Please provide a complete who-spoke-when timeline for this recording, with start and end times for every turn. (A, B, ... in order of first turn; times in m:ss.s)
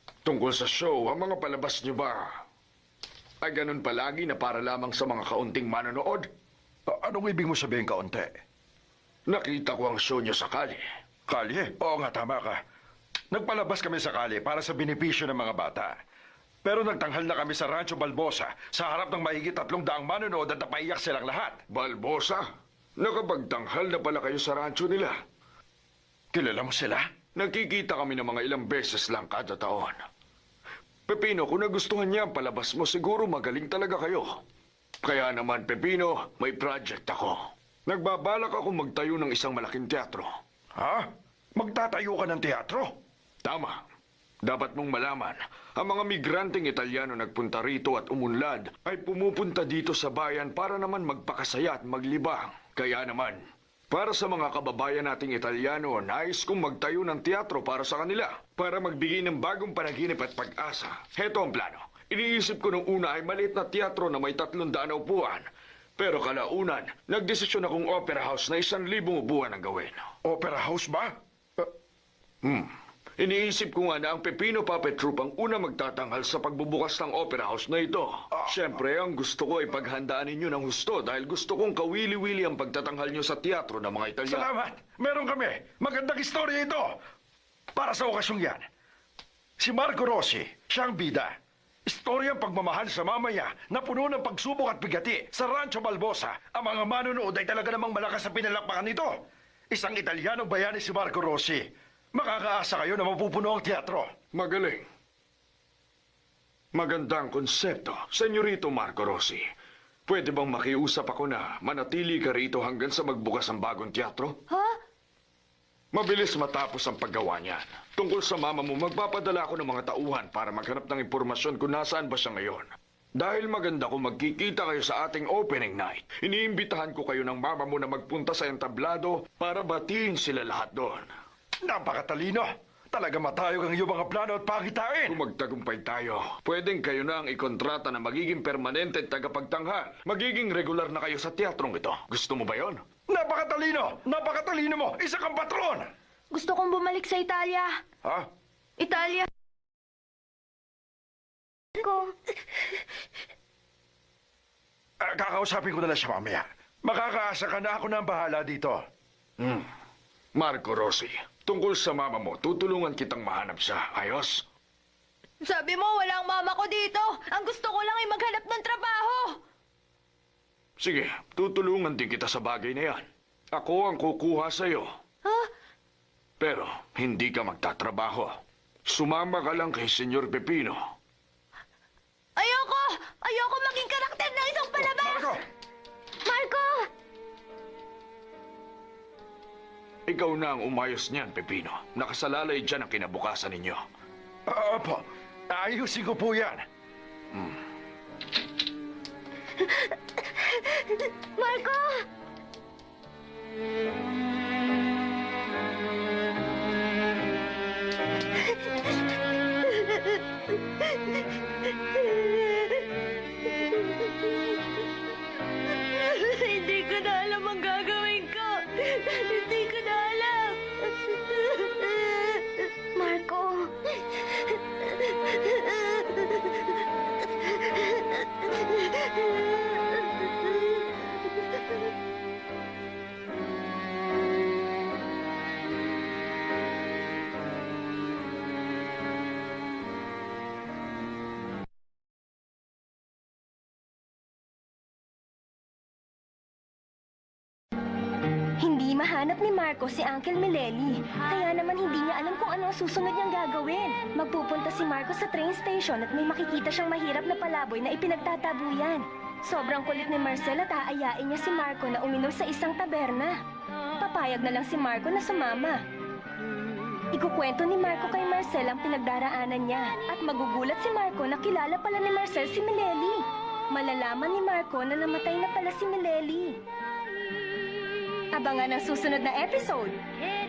0:00.2-0:02.3 A
0:03.4-0:06.3 A
0:06.9-0:08.4 B
0:09.3-0:10.8 A
0:11.3-0:12.6 B
0:13.3-0:16.0 B
0:16.6-0:21.6 B
0:21.7-0:22.5 A
0:23.0-0:25.2 A
0:26.3-0:27.0 B
0:27.4-0:30.0 A
0:31.1-0:34.4 A
0:35.0-0:40.3 A
0:40.8-0:43.0 B
0:43.4-0:43.8 A
0:44.4-1:10.1 A
1:10.2-1:11.7 B
1:12.4-1:24.5 A
1:18.3-1:18.6 B
1:24.3-1:27.0 B
1:27.7-1:28.7 B
1:29.6-1:31.4 B
1:31.9-1:39.1 B
1:39.7-1:44.1 B
1:44.3-1:44.8 A
1:46.8-1:49.4 A
1:50.1-1:54.4 A
1:54.5-1:54.8 C
1:55.9-2:11.1 A
2:11.6-2:15.2 B
2:15.1-2:22.8 A
2:23.1-2:25.9 B
2:26.3-2:27.7 C
2:28.0-2:28.3 B
2:28.8-2:29.3 C
2:31.8-2:32.1 D
2:35.0-2:38.8 B
2:39.4-2:39.7 A
2:40.4-2:44.4 A
2:45.4-2:49.4 C
2:50.8-2:54.9 A
2:55.2-2:55.5 C
2:56.4-3:00.8 A
3:02.4-3:05.4 C
3:04.8-3:05.4 B
3:06.3-3:06.9 D
3:10.1-3:13.8 A
3:14.5-3:16.6 B
3:20.8-3:22.0 D
3:36.1-3:40.6 C
3:43.0-3:43.7 D
3:45.8-3:46.1 D
3:48.6-3:49.5 D
4:08.6-4:23.4 E
4:24.0-4:25.8 E
4:27.1-4:36.6 E
4:38.3-4:40.0 E